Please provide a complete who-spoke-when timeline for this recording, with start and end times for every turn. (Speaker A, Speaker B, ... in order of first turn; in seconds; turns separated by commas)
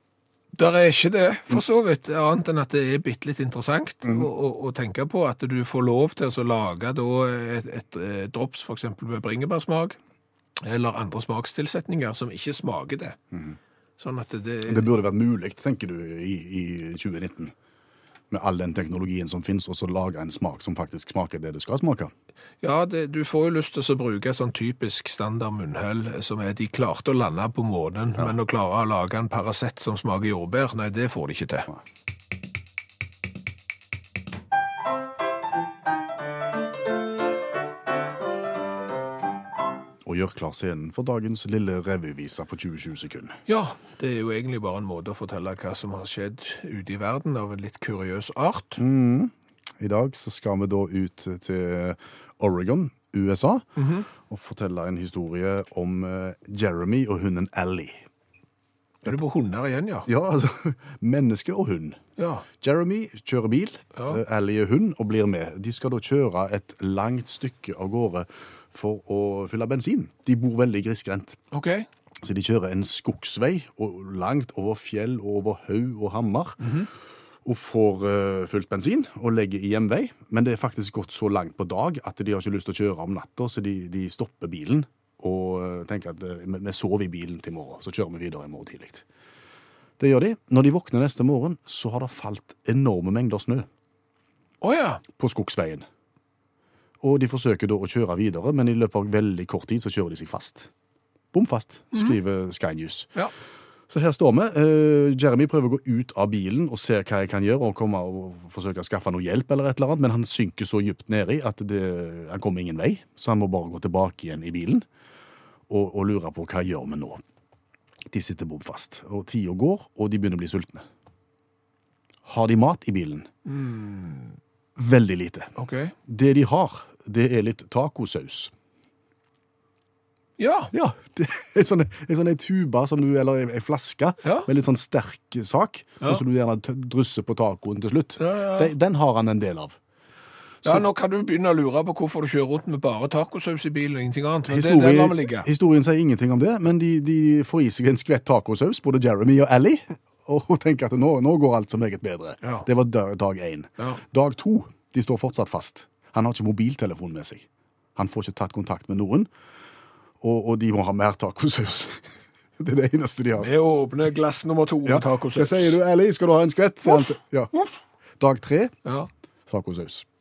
Speaker A: 0.5-10.0, Speaker A: 10.6-13.2, Speaker B: 13.3-13.6, Speaker A: 14.0-14.9, Speaker B: 14.7-17.5, Speaker B: 18.3-22.1, Speaker A: 22.6-31.7, Speaker B: 40.0-43.4, Speaker A: 43.5-48.8, Speaker B: 48.8-58.0, Speaker A: 53.8-54.1, Speaker A: 59.0-60.1, Speaker B: 60.1-62.0, Speaker A: 62.2-62.5, Speaker B: 62.6-71.4, Speaker A: 63.9-64.2, Speaker A: 71.5-71.8, Speaker B: 72.2-76.7, Speaker A: 76.6-76.9, Speaker B: 77.4-89.0, Speaker B: 90.0-93.7, Speaker A: 94.6-95.0, Speaker B: 95.2-95.8, Speaker B: 97.0-100.7, Speaker B: 101.3-103.1, Speaker B: 103.9-114.8, Speaker B: 115.7-117.2, Speaker B: 118.1-120.8, Speaker B: 122.2-123.3, Speaker A: 123.5-124.4, Speaker B: 124.8-125.5, Speaker A: 125.5-125.9, Speaker B: 126.0-128.5, Speaker A: 130.4-130.7, Speaker B: 130.7-139.8, Speaker A: 138.2-138.7, Speaker A: 140.6-145.5, Speaker B: 144.5-159.3, Speaker A: 152.4-152.7, Speaker B: 160.2-162.0, Speaker B: 162.6-163.5, Speaker A: 163.4-165.8, Speaker B: 164.8-167.7, Speaker B: 168.2-168.7, Speaker B: 169.5-170.1